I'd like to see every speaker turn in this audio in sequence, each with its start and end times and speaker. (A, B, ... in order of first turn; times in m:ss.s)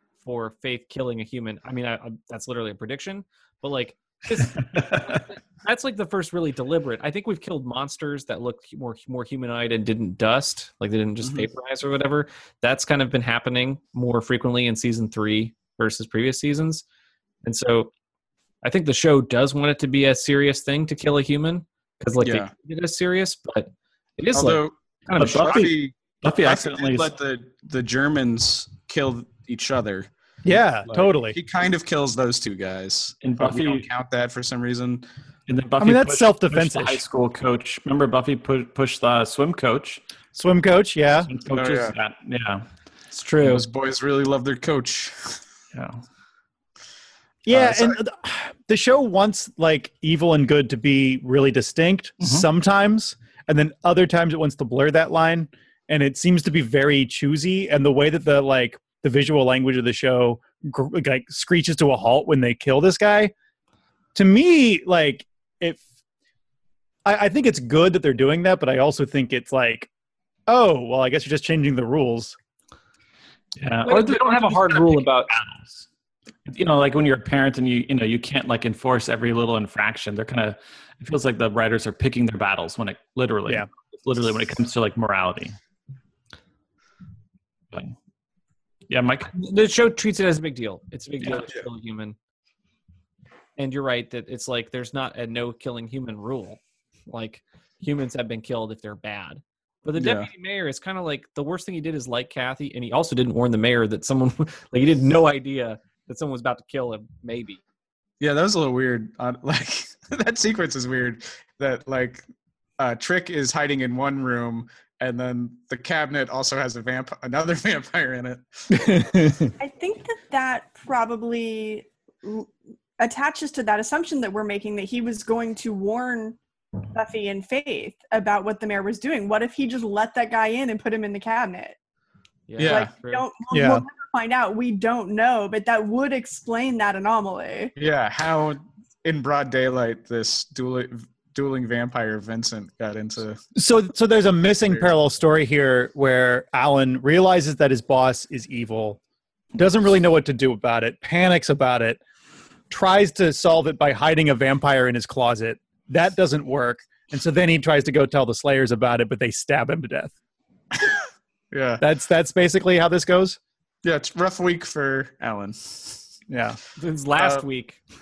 0:00.2-0:16.8 A
0:04.6-0:05.2 B
0:11.2-0:11.5 C
0:17.4-0:17.9 A
0:18.6-0:25.7 A
0:22.2-0:22.5 C
0:24.3-0:30.1 C
0:25.2-0:27.1 B
0:30.4-0:31.4 D
0:30.9-0:35.0 C
0:33.2-0:33.9 B
0:35.5-0:40.0 B
0:35.8-0:37.0 D
0:40.3-0:41.3 D
0:41.2-0:42.6 B
0:41.5-0:41.9 C
0:43.1-0:43.6 A
0:43.4-0:45.4 C
0:45.7-0:46.0 B
0:47.4-1:03.3 D
0:47.5-0:48.0 C
1:04.1-1:05.8 D
1:07.0-1:09.9 D
1:10.5-1:12.4 D
1:13.6-1:15.8 B
1:13.8-1:15.4 A
1:16.5-1:25.6 B
1:28.9-1:29.3 B
1:29.3-1:32.2 A
1:33.6-1:47.6 A
1:40.0-1:40.3 C
1:48.2-1:52.2 C
1:52.8-1:58.9 C
1:58.7-1:59.5 D
1:59.6-2:06.4 E
2:06.9-2:11.8 E
2:12.5-2:13.3 A
2:12.6-2:12.9 C
2:12.6-2:17.7 E
2:13.5-2:13.8 D
2:17.8-2:23.4 C
2:23.6-2:29.0 D
2:24.5-2:24.9 C
2:29.5-2:32.0 D
2:32.7-2:40.1 D
2:41.5-2:41.8 C
2:41.8-2:43.4 D
2:43.8-2:46.0 C
2:46.3-2:46.6 D
2:46.8-2:47.8 A
2:47.2-2:47.4 C